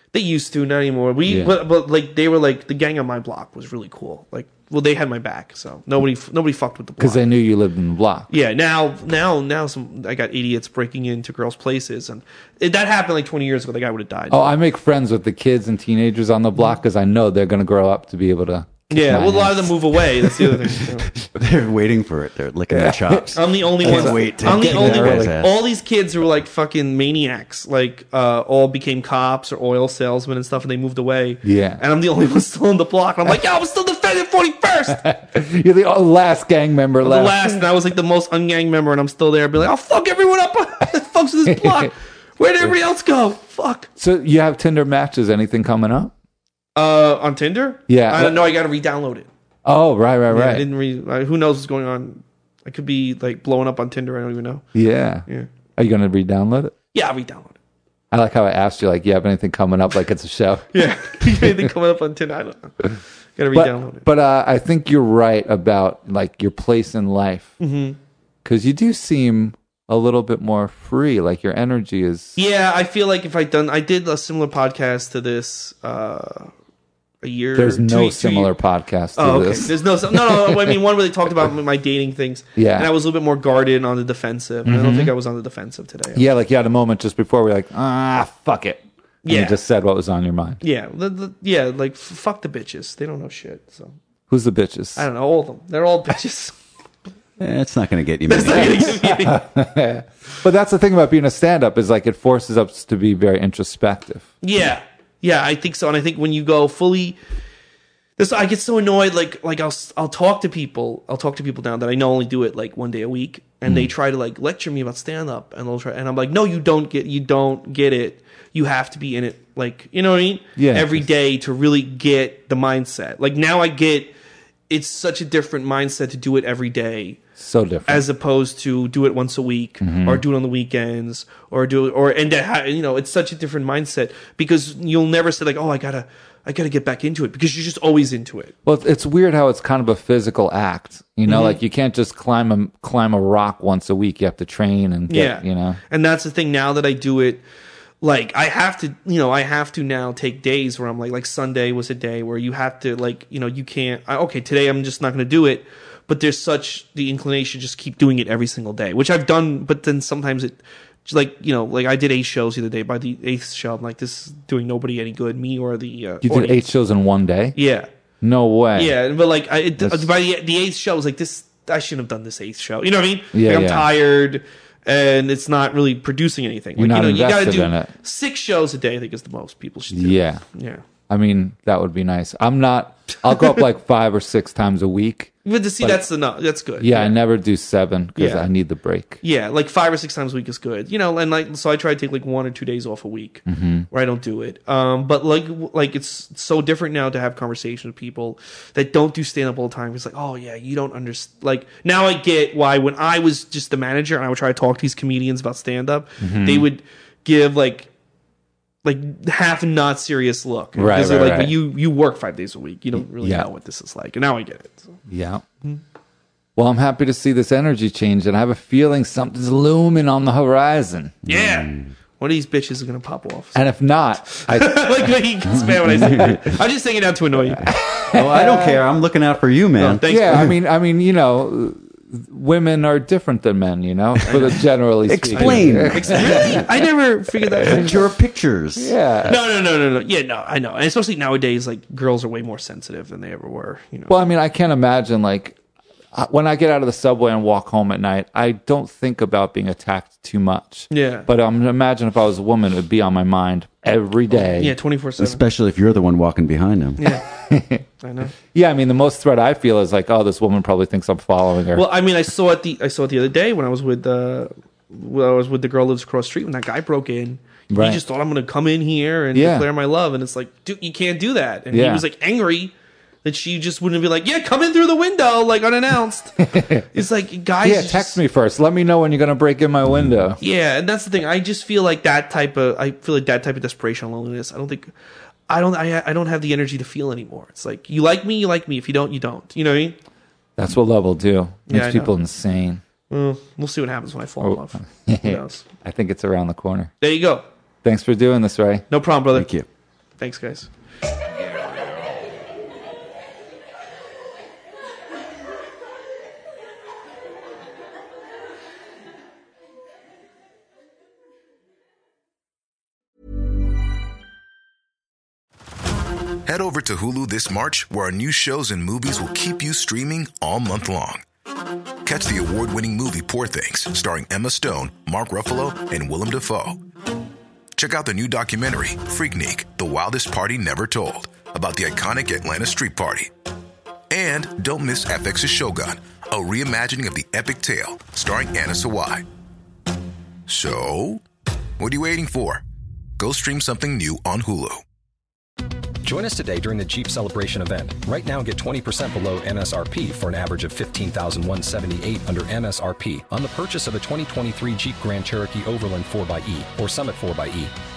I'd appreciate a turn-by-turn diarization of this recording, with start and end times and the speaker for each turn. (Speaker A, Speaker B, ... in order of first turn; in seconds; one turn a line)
Speaker A: 0.1-7.2
Speaker B: 1.3-1.6
Speaker B: 7.0-8.3
Speaker A: 8.3-14.6
Speaker B: 14.3-20.0
Speaker A: 18.9-21.1
Speaker C: 21.1-25.6
Speaker B: 22.7-25.3
Speaker A: 23.3-35.0
Speaker B: 31.4-31.8
Speaker B: 35.0-37.6
Speaker A: 37.0-43.9
Speaker B: 41.5-41.9
Speaker B: 44.0-46.1
Speaker A: 46.8-49.3
Speaker B: 47.9-48.4
Speaker B: 49.6-50.6
Speaker A: 50.3-54.6
Speaker B: 54.7-55.2
Speaker B: 55.8-56.7
Speaker A: 56.9-57.5
Speaker B: 58.1-61.5
Speaker A: 60.7-64.0
Speaker B: 63.5-67.5
Speaker A: 67.6-68.0
Speaker B: 68.4-72.3
Speaker A: 72.3-76.5
Speaker A: 77.2-78.5
Speaker B: 77.5-80.7
Speaker A: 79.2-86.3
Speaker B: 82.6-82.9
Speaker B: 84.7-85.1
Speaker B: 86.1-90.6
Speaker A: 89.2-89.6
Speaker A: 90.6-93.9
Speaker B: 94.3-95.0
Speaker A: 95.0-96.5
Speaker C: 97.4-99.1
Speaker A: 98.3-99.4
Speaker B: 99.2-104.3
Speaker A: 104.4-107.2
Speaker A: 108.2-124.1
Speaker B: 120.6-121.0
Speaker A: 124.7-127.2
Speaker B: 127.4-128.0
Speaker A: 127.9-138.5
Speaker B: 129.8-130.2
Speaker B: 138.7-145.8
Speaker A: 141.2-141.6
Speaker A: 145.1-147.4
Speaker A: 148.0-166.7
Speaker B: 166.2-167.6
Speaker A: 167.5-167.9
Speaker B: 168.2-168.9
Speaker A: 168.7-180.8
Speaker B: 173.3-173.9
Speaker B: 176.8-177.9
Speaker B: 179.9-180.4
Speaker B: 181.1-186.0
Speaker A: 183.3-183.6
Speaker A: 185.4-187.1
Speaker B: 186.8-189.2
Speaker A: 188.2-188.5
Speaker A: 189.2-207.9
Speaker B: 193.5-193.8
Speaker B: 206.2-206.7
Speaker A: 208.8-214.9
Speaker B: 210.8-211.5
Speaker B: 213.2-213.5
Speaker B: 215.1-215.4
Speaker B: 216.6-221.2
Speaker A: 221.2-223.7
Speaker C: 221.3-221.9
Speaker B: 223.5-224.9
Speaker A: 224.2-227.7
Speaker C: 225.5-226.4
Speaker B: 227.6-228.8
Speaker C: 228.1-230.5
Speaker A: 229.8-230.6
Speaker B: 230.0-236.7
Speaker A: 234.2-234.6
Speaker C: 235.1-236.8
Speaker A: 235.3-238.1
Speaker B: 237.5-237.9
Speaker C: 237.6-238.9
Speaker B: 238.8-239.4
Speaker A: 239.2-244.3
Speaker B: 244.1-245.6
Speaker B: 246.1-254.7
Speaker A: 250.9-251.3
Speaker A: 254.3-255.4
Speaker C: 255.2-257.0
Speaker B: 257.4-257.8
Speaker A: 258.0-258.3
Speaker B: 258.5-261.9
Speaker A: 261.7-272.7
Speaker B: 267.7-268.0
Speaker B: 269.3-269.6
Speaker B: 271.7-272.0
Speaker A: 273.2-278.2
Speaker B: 276.5-276.9
Speaker B: 277.6-280.4
Speaker A: 280.4-284.9
Speaker A: 285.5-289.9
Speaker B: 290.6-292.8
Speaker A: 291.7-292.1
Speaker A: 293.1-295.6
Speaker B: 294.4-296.9
Speaker A: 297.0-297.4
Speaker B: 297.8-298.8
Speaker A: 298.9-299.5
Speaker C: 299.3-299.6
Speaker A: 300.2-300.7
Speaker D: 316.4-321.2
Speaker D: 322.0-326.8
Speaker D: 327.8-333.3
Speaker D: 334.1-339.2
Speaker D: 340.5-341.2
Speaker D: 341.8-342.6
Speaker D: 343.2-344.8
Speaker E: 346.0-357.7